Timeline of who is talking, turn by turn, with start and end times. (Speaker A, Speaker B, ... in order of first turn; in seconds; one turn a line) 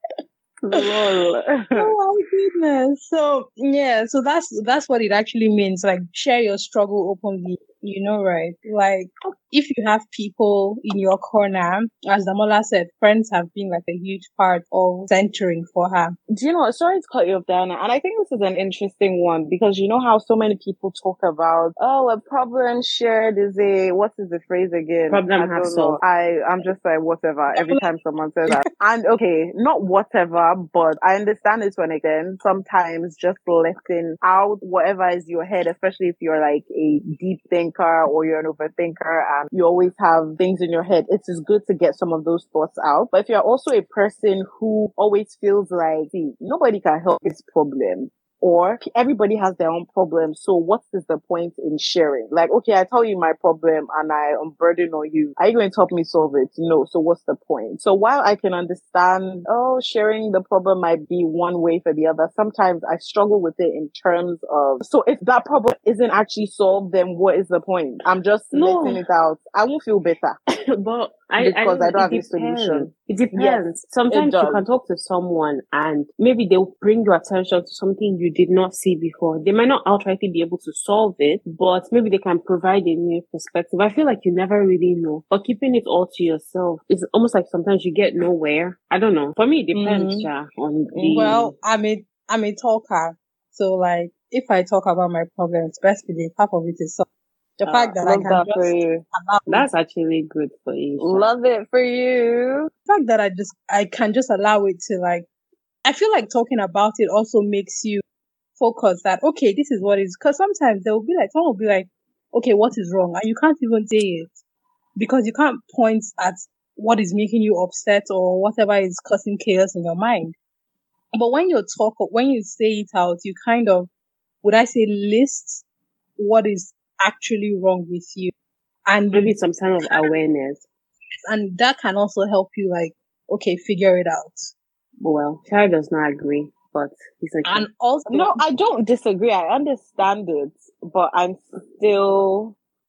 Speaker A: 0.6-1.9
Speaker B: 1.7-16.1
Speaker A: 16.3-70.4
Speaker C: 25.1-26.0
Speaker C: 68.5-69.0
Speaker C: 70.5-91.5
Speaker A: 71.4-74.6
Speaker A: 89.8-90.3
Speaker A: 90.9-91.4
Speaker B: 91.1-97.1
Speaker B: 97.6-99.7
Speaker A: 97.7-99.0
Speaker C: 99.5-101.3
Speaker A: 101.0-102.7
Speaker B: 102.9-105.2
Speaker B: 105.8-108.0
Speaker B: 108.6-114.4
Speaker B: 115.0-120.3
Speaker B: 121.1-123.9
Speaker B: 124.4-125.6
Speaker B: 126.2-128.3
Speaker B: 128.9-129.3
Speaker C: 129.1-130.6
Speaker B: 131.3-134.5
Speaker C: 135.0-137.7
Speaker B: 137.4-138.4
Speaker A: 138.1-142.6